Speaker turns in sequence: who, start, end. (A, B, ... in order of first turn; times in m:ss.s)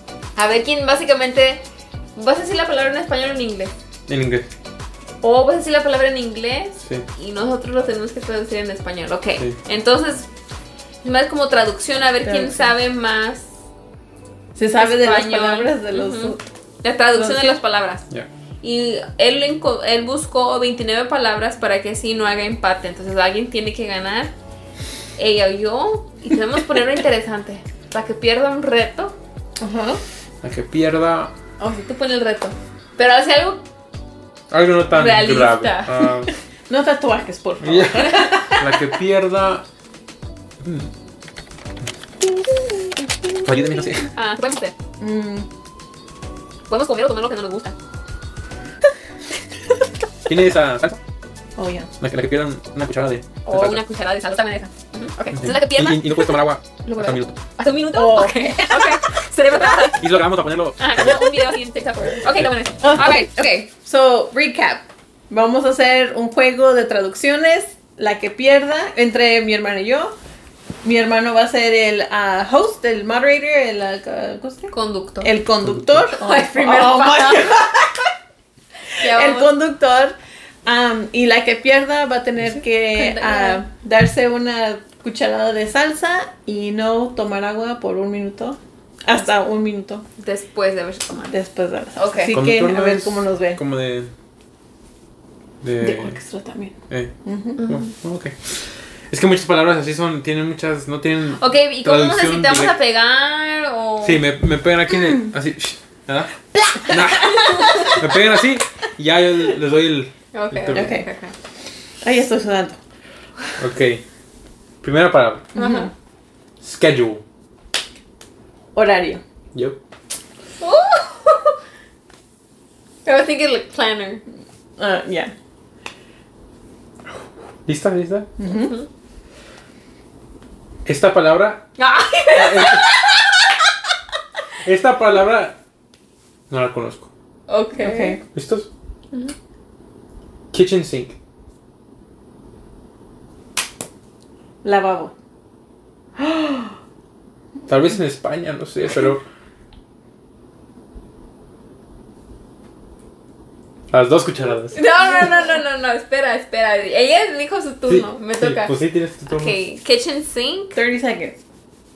0:00.4-0:01.6 A
0:02.2-0:03.7 A
0:04.1-0:04.5 B
0:05.2-0:10.3 A
0:11.0-0:13.5 A
0:12.2-0:12.7 C
0:14.5-0:16.4 C
0:14.8-0:18.0 A
0:17.1-0:17.6 C
0:18.6-0:24.3 A
0:25.2-0:29.2 A
0:29.6-0:30.0 C
0:30.4-0:31.3 B
0:31.6-0:33.6 A
0:34.5-0:36.3 B
0:34.9-0:35.9 A
0:36.7-0:38.9 C
0:37.6-0:39.6 B
0:40.6-0:40.9 B
0:43.4-0:44.1 B
0:44.1-0:44.7 A
0:45.0-0:45.5 C
0:46.7-0:47.7 A
0:50.2-0:51.0 B
0:51.6-0:51.9 C
0:52.0-0:53.8 B
0:53.4-1:00.0 A
0:55.3-0:57.4 B
0:57.9-0:59.0 C
1:00.0-1:01.3 B
1:00.8-1:03.7 A
1:02.8-1:10.1 C
1:10.8-1:18.1 C
1:14.7-1:15.3 A
1:15.7-1:16.0 B
1:16.1-1:17.6 A
1:19.0-1:19.5 A
1:19.0-1:30.0 C
1:22.9-1:23.6 A
1:30.2-1:31.4 A
1:31.3-1:33.6 C
1:31.9-1:32.4 A
1:32.3-1:34.1 B
1:35.6-1:36.2 B
1:35.8-1:36.7 C
1:36.9-1:42.8 B
1:37.2-1:37.6 C
1:37.6-1:37.9 A
1:41.4-1:44.2 A
1:44.0-1:51.0 B
1:46.5-1:47.8 C
1:47.1-1:48.0 A
1:50.3-1:51.3 A
1:50.7-1:51.0 C
1:52.0-1:52.8 C
1:53.6-1:54.0 B
1:54.8-1:55.5 B
1:55.5-1:55.9 A
1:55.5-1:55.9 C
1:56.6-1:57.2 B
1:58.7-1:59.2 C
1:59.5-1:59.8 B
2:00.6-2:01.6 A
2:03.0-2:04.2 A
2:04.8-2:05.3 C
2:07.6-2:08.3 B
2:08.4-2:08.8 C
2:08.5-2:08.9 A
2:10.8-2:11.6 B
2:11.8-2:13.4 A
2:12.3-2:13.0 B
2:14.6-2:15.6 B
2:16.5-2:17.1 B
2:17.5-2:18.2 A
2:17.8-2:18.2 C
2:18.3-2:18.7 B
2:20.5-2:21.2 B
2:24.6-2:25.1 C
2:26.2-2:26.8 C
2:27.7-2:29.2 B
2:33.9-2:34.8 B
2:34.7-2:38.7 A
2:37.9-2:39.6 B
2:39.2-2:40.8 A
2:40.7-2:41.4 C